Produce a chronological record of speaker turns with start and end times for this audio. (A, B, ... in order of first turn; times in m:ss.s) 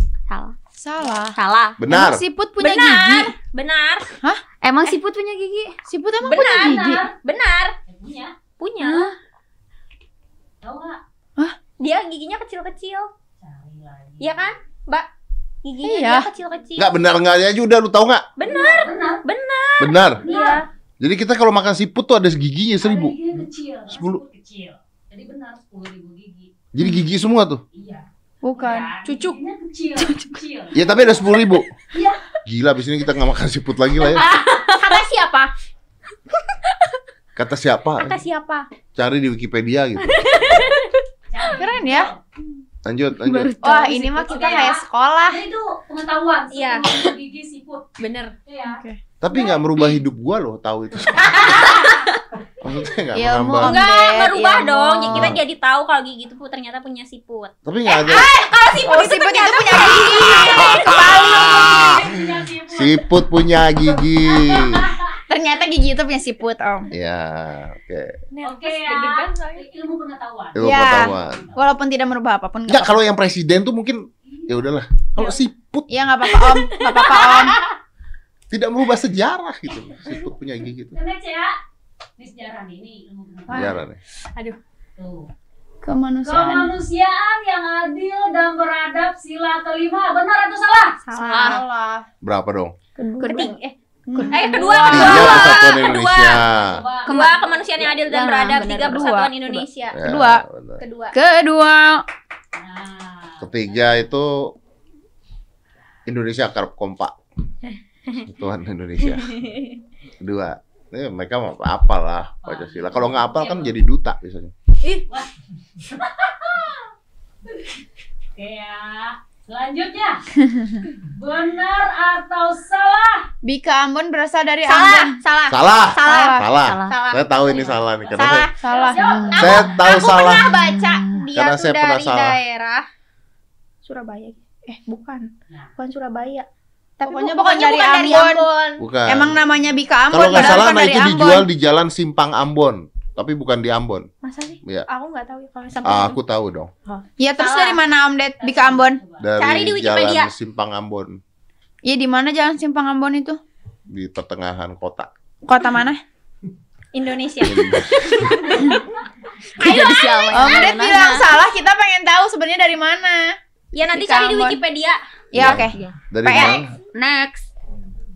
0:00.3-0:00.5 A
0:00.8-0:01.4 B
0:01.3-0:01.8 A
0:01.8-0:02.2 C
0:01.9-0:03.3 B
0:02.6-0:04.1 D
0:04.6-0:05.7 A
0:05.8-0:07.0 B
0:06.2-0:07.7 D
0:06.6-0:07.1 E
0:07.9-0:08.3 E
0:08.6-0:09.1 D
0:08.8-0:09.1 A
0:10.6-0:11.0 E
0:11.8-0:13.1 D
0:13.4-0:14.4 E
0:14.2-0:15.1 D
0:15.6-0:16.9 D
0:15.8-0:16.3 B
0:16.8-0:18.2 C
0:18.4-0:20.6 D
0:18.4-0:19.2 E
0:19.8-0:20.2 C
0:20.2-0:20.6 E
0:20.3-0:20.6 B
0:21.0-0:23.1 C
0:22.8-0:26.5 E
0:23.9-0:24.2 C
0:26.7-0:27.6 C
0:27.7-0:28.0 E
0:28.4-0:29.3 B
0:28.6-0:30.8 E
0:30.7-0:31.7 C
0:31.9-0:32.2 E
0:32.4-0:34.2 C
0:34.1-0:35.5 D
0:37.4-0:38.2 C
0:38.0-0:38.6 D
0:39.0-0:40.2 C
0:40.0-0:41.0 D
0:41.3-0:42.2 E
0:41.5-0:42.1 B
0:42.8-0:43.5 C
0:43.2-0:43.9 A
0:43.6-0:45.4 B
0:43.6-0:44.7 D
0:43.7-0:47.9 E
0:46.5-0:47.0 D
0:48.0-0:48.3 D
0:48.4-0:48.8 E
0:48.6-0:49.0 B
0:49.2-0:51.7 C
0:51.5-0:51.9 D
0:52.6-0:53.8 C
0:53.1-0:55.3 B
0:53.6-1:01.2 D
0:55.1-0:55.4 C
0:57.6-0:58.3 C
0:58.1-1:01.8 B
0:59.8-1:02.2 C
1:01.0-1:03.0 E
1:02.7-1:04.9 C
1:03.7-1:05.2 E
1:05.3-1:06.9 B
1:06.9-1:08.2 C
1:08.3-1:09.6 D
1:08.4-1:11.4 E
1:10.6-1:11.4 C
1:10.6-1:13.0 B
1:12.7-1:15.9 C
1:15.9-1:17.6 B
1:16.3-1:17.7 D
1:18.5-1:20.9 C
1:20.9-1:21.6 E
1:22.2-1:23.7 E
1:23.5-1:23.8 D
1:23.5-1:24.0 C
1:25.0-1:25.3 E
1:25.8-1:26.7 B
1:26.2-1:31.0 E
1:31.1-1:31.6 D
1:31.1-1:32.0 B
1:32.2-1:32.7 C
1:33.0-1:33.5 B
1:33.2-1:33.5 A
1:33.2-1:33.7 D
1:34.1-1:35.4 B
1:34.3-1:36.4 D
1:34.4-1:35.7 E
1:34.9-1:36.8 C
1:36.6-1:37.5 E
1:37.0-1:39.1 A
1:37.0-1:40.0 D
1:38.8-1:40.4 B
1:39.9-1:40.8 C
1:40.8-1:41.1 D
1:41.1-1:42.0 B
1:42.5-1:43.9 E
1:43.4-1:44.5 C
1:46.0-1:47.1 C
1:48.2-1:49.4 C
1:49.2-1:49.8 D
1:50.2-1:54.5 C
1:52.4-1:53.7 E
1:55.1-1:56.9 E
1:57.5-1:57.8 E
1:58.3-2:00.4 E
2:00.9-2:03.3 E
2:03.4-2:05.2 B
2:04.6-2:08.4 D
2:05.5-2:08.5 C
2:06.0-2:06.5 B
2:06.6-2:07.0 A
2:07.5-2:09.7 E
2:08.2-2:11.0 B
2:09.0-2:11.2 A
2:09.3-2:12.8 D
2:09.4-2:10.5 C
2:11.3-2:12.4 C
2:13.8-2:16.5 D
2:17.0-2:18.4 B
2:17.0-2:18.8 D
2:18.8-2:19.4 C
2:19.0-2:21.5 B
2:20.1-2:24.1 C
2:20.3-2:20.6 D
2:24.2-2:26.2 D
2:25.8-2:26.7 C
2:26.8-2:27.8 D
2:27.2-2:29.0 B
2:28.4-2:29.3 E
2:29.2-2:31.2 C
2:29.4-2:30.3 D
2:31.8-2:33.4 B
2:33.9-2:35.1 C
2:35.5-2:36.0 B
2:36.9-2:38.8 D
2:37.4-2:38.2 C
2:39.6-2:41.2 A
2:39.6-2:40.7 D
2:40.3-2:44.6 B
2:43.7-2:45.0 D
2:45.3-2:46.7 C
2:45.3-2:46.6 B
2:45.7-2:47.5 A